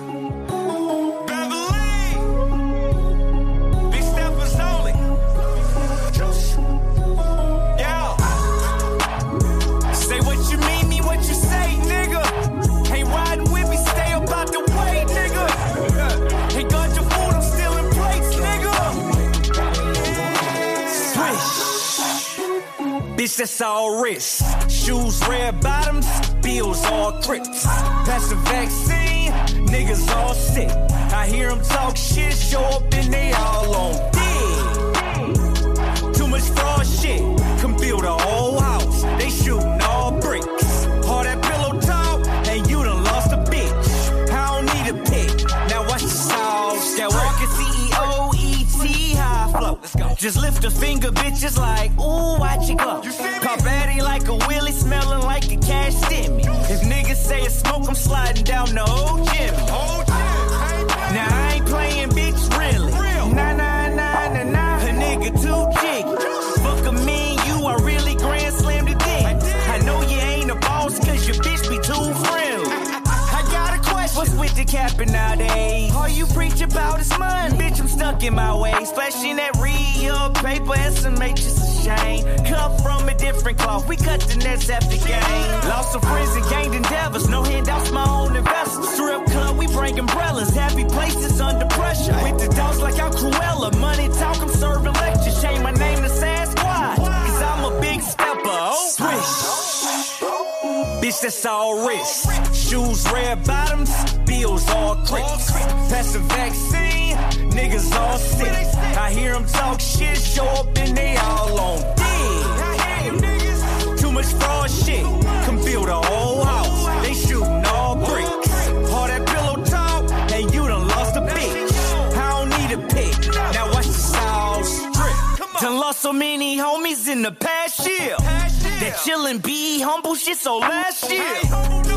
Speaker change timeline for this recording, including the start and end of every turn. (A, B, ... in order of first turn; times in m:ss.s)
0:01.2-0:02.3 A
0:03.9-0:05.0 A
0:07.7-0:08.2 A
0:09.9-0:12.3 A
0:12.8-0:19.2 A
0:20.0-0:21.8 A
0:23.2-0:34.9 A
0:36.1-0:59.8 A
1:01.1-1:39.6 A
1:41.0-1:53.2 A
1:53.8-2:11.5 A